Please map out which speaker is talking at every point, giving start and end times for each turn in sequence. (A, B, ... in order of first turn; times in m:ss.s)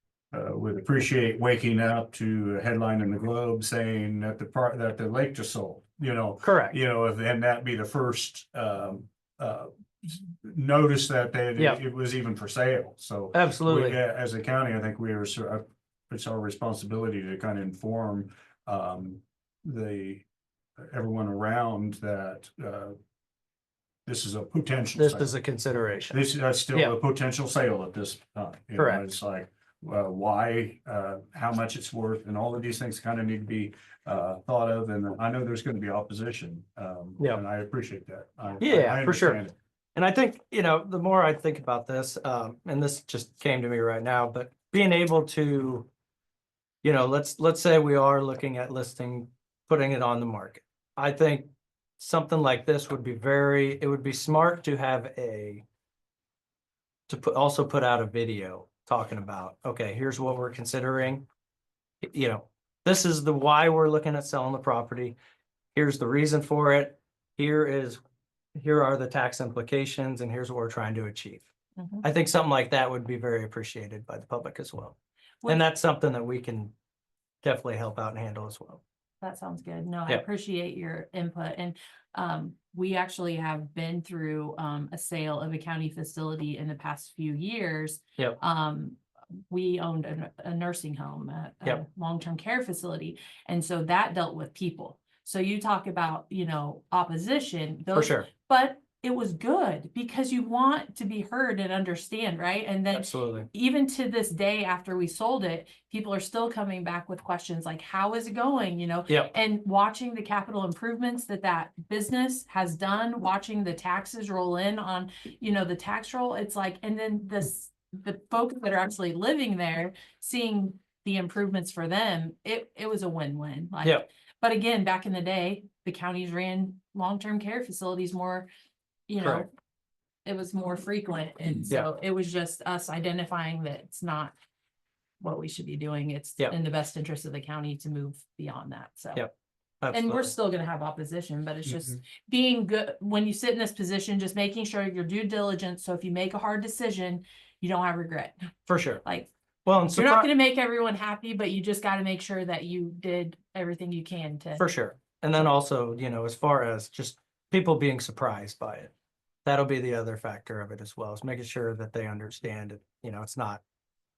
0:00.3-0:20.2 A
0:06.4-0:06.8 B
0:13.3-0:14.0 B
0:20.8-0:23.0 A
0:24.1-0:25.4 A
0:25.0-0:26.2 B
0:26.1-0:39.6 A
0:28.8-0:29.0 B
0:38.6-0:39.4 B
0:40.0-0:45.9 B
0:46.8-0:55.6 B
0:57.1-1:01.3 B
1:02.0-1:05.2 B
1:05.8-1:08.0 B
1:08.6-1:11.5 B
1:11.8-1:12.1 C
1:12.0-1:15.0 B
1:15.5-1:16.7 B
1:17.4-1:18.8 B
1:19.2-2:08.5 C
1:37.9-1:38.3 B
1:42.9-1:43.5 B
2:09.1-2:09.5 C
2:09.2-2:09.5 B
2:10.3-2:14.3 C
2:15.2-2:19.2 C
2:19.2-2:20.3 B
2:19.9-2:28.4 C
2:28.7-2:29.0 B
2:29.7-2:30.3 B
2:29.9-2:34.7 C
2:34.6-2:38.9 B
2:39.4-2:43.6 B